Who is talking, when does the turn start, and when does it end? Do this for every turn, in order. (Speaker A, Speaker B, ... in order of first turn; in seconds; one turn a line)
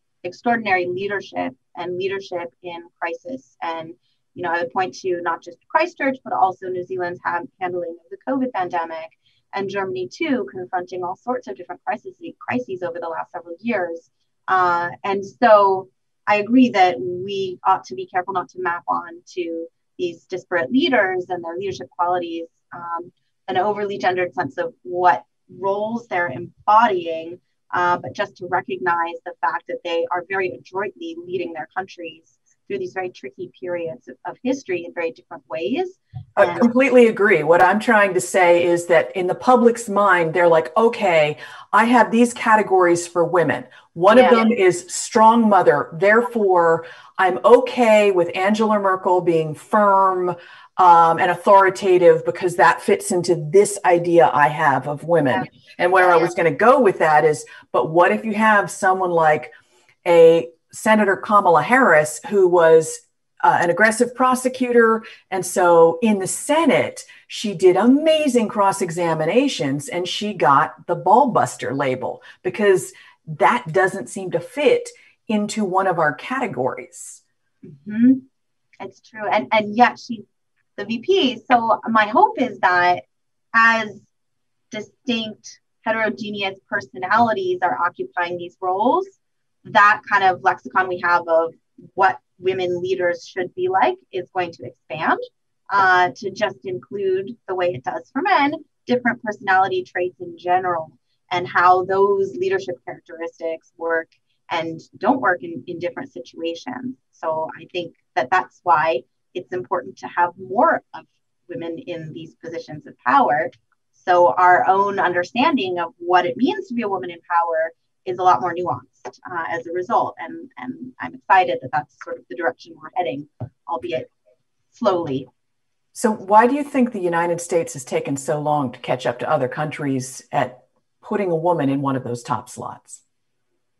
Speaker A: 0.2-36.7
Speaker B: 36.4-59.5
Speaker A: 44.1-44.5
Speaker B: 60.0-77.2
Speaker A: 77.6-78.2
Speaker A: 78.8-80.2
Speaker A: 80.8-83.0
Speaker A: 83.5-84.1
Speaker A: 84.7-124.1
Speaker A: 124.7-125.3
Speaker B: 125.9-133.0